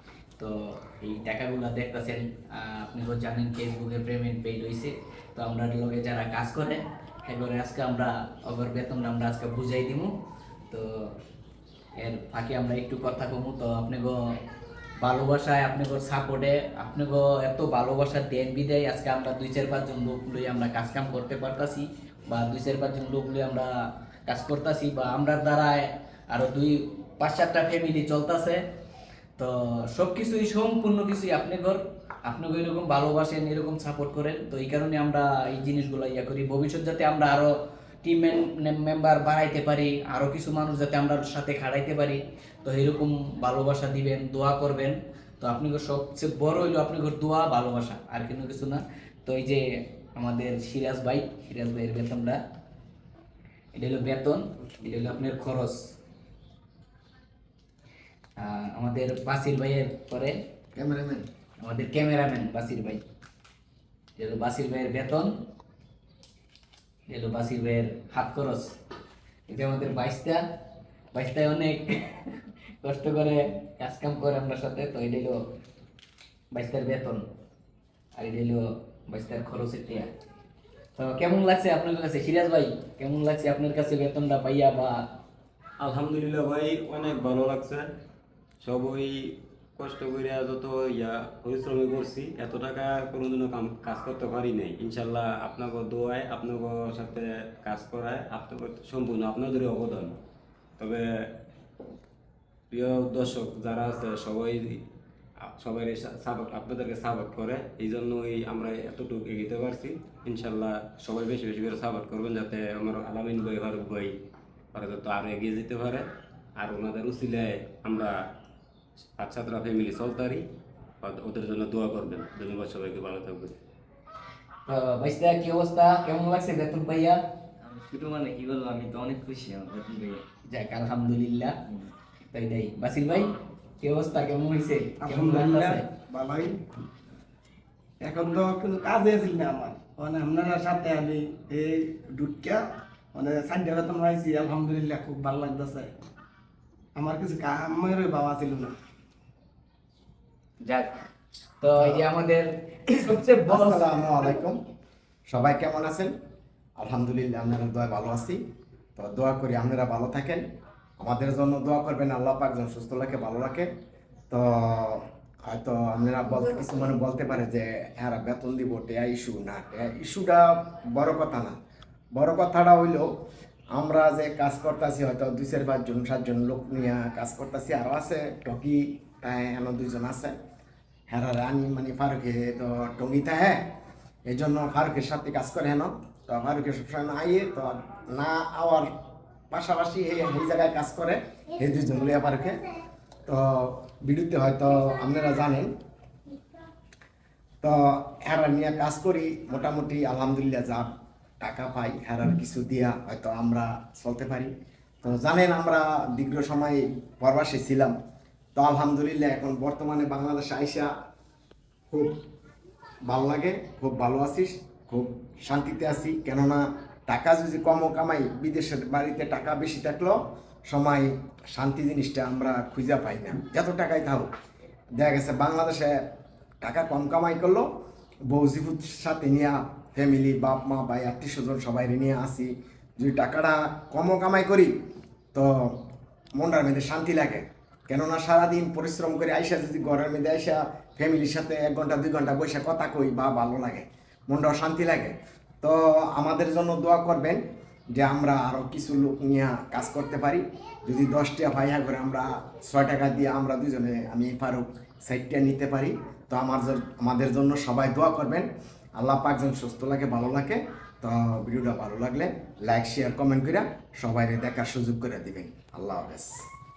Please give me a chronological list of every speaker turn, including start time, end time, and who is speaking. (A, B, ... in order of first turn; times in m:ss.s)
0:00.4-0:10.1 A
0:10.7-0:11.1 A
0:12.0-0:14.4 A
0:15.0-0:23.7 A
0:24.3-0:28.6 A
0:29.4-0:52.4 A
0:53.7-0:55.9 A
0:58.4-1:00.4 A
1:00.7-1:01.2 B
1:01.6-1:03.0 A
1:04.2-1:05.4 A
1:07.1-1:08.8 A
1:09.5-1:10.4 A
1:11.1-1:15.4 A
1:16.5-1:17.2 A
1:18.2-1:20.1 A
1:21.0-1:25.0 A
1:25.8-1:27.8 C
1:28.6-1:40.1 C
1:40.8-1:41.3 C
1:42.7-1:44.8 C
1:45.4-1:54.1 C
1:54.7-1:56.1 C
1:56.6-1:58.2 C
1:59.2-2:00.4 C
2:01.0-2:03.5 C
2:04.7-2:07.2 A
2:07.6-2:10.2 D
2:10.5-2:11.6 A
2:12.3-2:15.8 A
2:15.0-2:16.6 E
2:18.0-2:25.9 E
2:26.9-2:28.7 E
2:30.6-2:31.0 A
2:31.6-2:33.8 A
2:33.5-2:34.6 B
2:35.3-2:36.1 B
2:36.8-2:38.4 B
2:39.0-2:40.4 B
2:41.0-2:43.7 B
2:44.3-2:51.6 B
2:52.1-2:53.1 B
2:53.7-3:00.3 B
3:01.1-3:03.7 B
3:04.2-3:08.9 B
3:09.5-3:12.6 B
3:13.2-3:15.7 B
3:17.6-3:20.8 B
3:21.4-3:24.5 B
3:25.0-3:27.9 B
3:28.6-3:30.9 B
3:33.1-3:44.3 B
3:45.0-3:46.0 B
3:46.6-3:47.6 B
3:48.3-3:54.7 B
3:55.3-3:55.8 B
3:56.4-4:07.4 B
4:07.9-4:26.3 B